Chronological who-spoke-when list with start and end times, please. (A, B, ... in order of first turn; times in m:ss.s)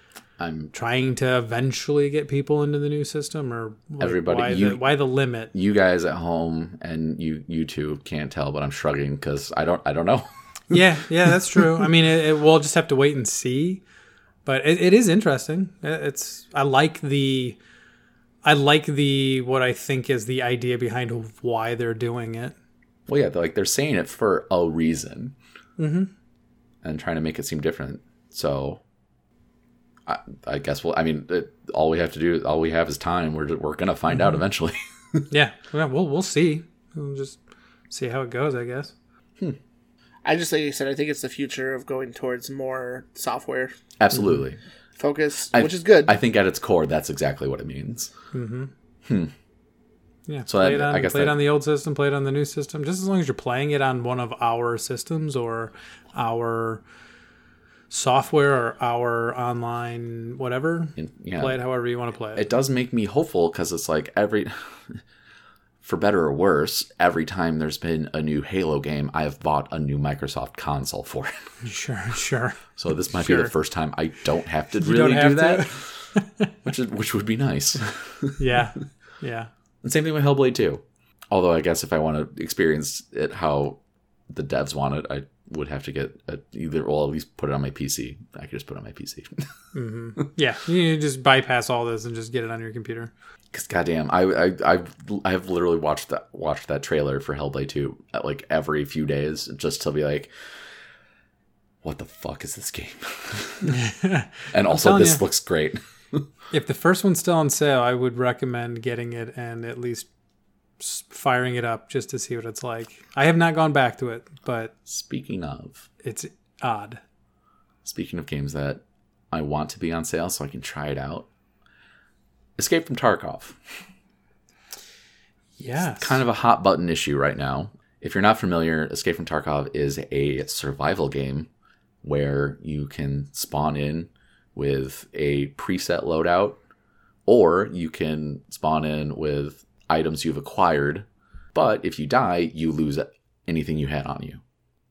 0:00.4-0:00.7 A
0:00.7-0:05.5 B
0:04.0-0:04.8 A
0:05.5-0:10.8 A
0:10.7-0:13.8 B
0:14.4-0:17.6 B
0:18.4-0:22.5 B
0:23.1-0:25.4 A
0:25.8-0:26.1 B
0:26.8-0:28.8 A
0:30.0-0:35.3 A
0:35.3-0:37.4 B
0:37.9-0:38.9 B
0:40.2-0:43.7 C
0:44.0-0:44.6 A
0:45.0-0:46.1 C
0:45.5-0:48.1 A
0:48.3-0:48.7 B
0:49.0-0:49.3 A
0:50.3-0:56.8 B
0:50.5-0:51.4 A
0:57.9-1:02.4 B
1:01.0-1:01.6 A
1:02.4-1:05.0 A
1:05.8-1:11.3 A
1:11.6-1:13.5 B
1:12.8-1:15.9 A
1:14.7-1:16.5 B
1:16.6-1:18.4 A
1:18.4-1:19.5 B
1:19.8-1:23.8 A
1:24.3-1:29.5 A
1:29.7-1:33.1 B
1:33.5-1:40.3 A
1:41.8-1:43.8 A
1:43.6-1:45.2 B
1:44.5-1:46.2 A
1:46.5-1:50.1 B
1:50.8-1:54.7 B
1:54.8-1:55.9 A
1:56.0-1:57.0 B
1:57.8-2:01.3 A
2:02.6-2:03.6 A
2:05.6-2:06.2 B
2:05.8-2:11.5 A
2:12.0-2:16.6 A
2:17.3-2:24.4 A